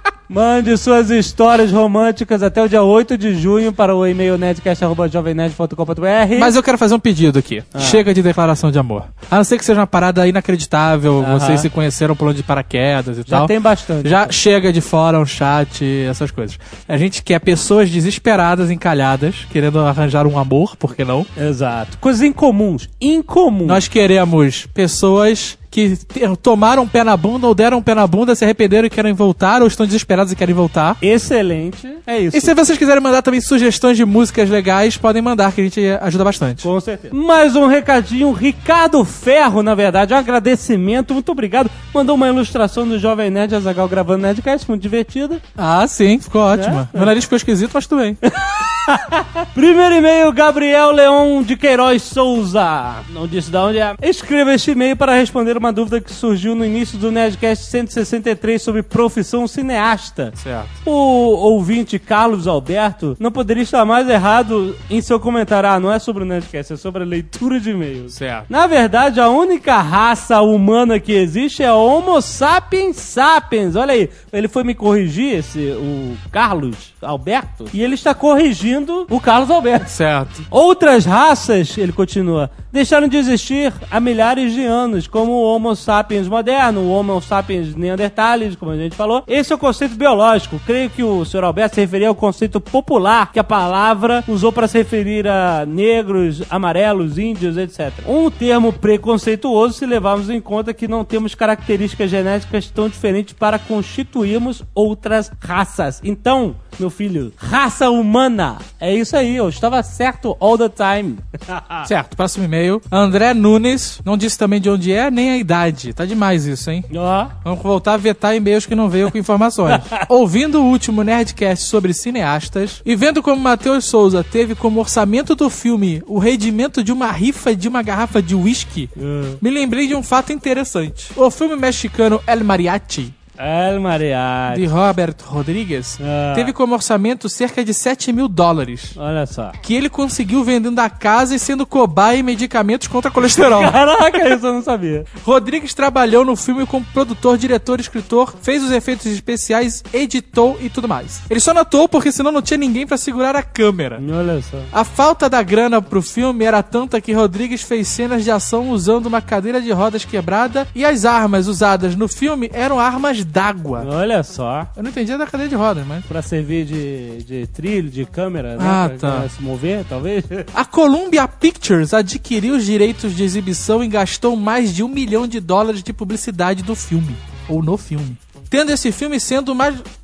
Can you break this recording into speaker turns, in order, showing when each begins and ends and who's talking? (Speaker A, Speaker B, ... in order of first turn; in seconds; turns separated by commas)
Speaker A: 0.3-6.5, Speaker B: 6.3-21.3, Speaker A: 7.7-8.0, Speaker A: 11.2-11.7, Speaker A: 13.3-14.3, Speaker A: 21.4-23.8, Speaker B: 23.6-31.0, Speaker A: 31.0-32.5, Speaker B: 32.1-36.7, Speaker A: 36.6-45.4, Speaker B: 45.6-48.2, Speaker A: 46.5-47.1, Speaker A: 48.3-79.9, Speaker B: 60.4-60.7, Speaker B: 68.1-68.5, Speaker B: 79.9-80.4, Speaker A: 80.5-111.8, Speaker B: 111.8-116.9, Speaker A: 116.9-117.3, Speaker B: 117.4-133.1, Speaker A: 119.7-120.0, Speaker A: 129.0-129.4, Speaker A: 133.4-134.7, Speaker B: 134.5-139.0, Speaker A: 136.0-136.5, Speaker A: 138.9-139.6, Speaker B: 139.6-143.8, Speaker A: 143.2-145.1, Speaker B: 145.2-154.0, Speaker A: 154.0-154.7, Speaker B: 154.7-163.9, Speaker A: 163.8-164.7, Speaker B: 164.8-166.1, Speaker A: 166.1-170.5, Speaker B: 168.6-169.3, Speaker B: 170.5-179.8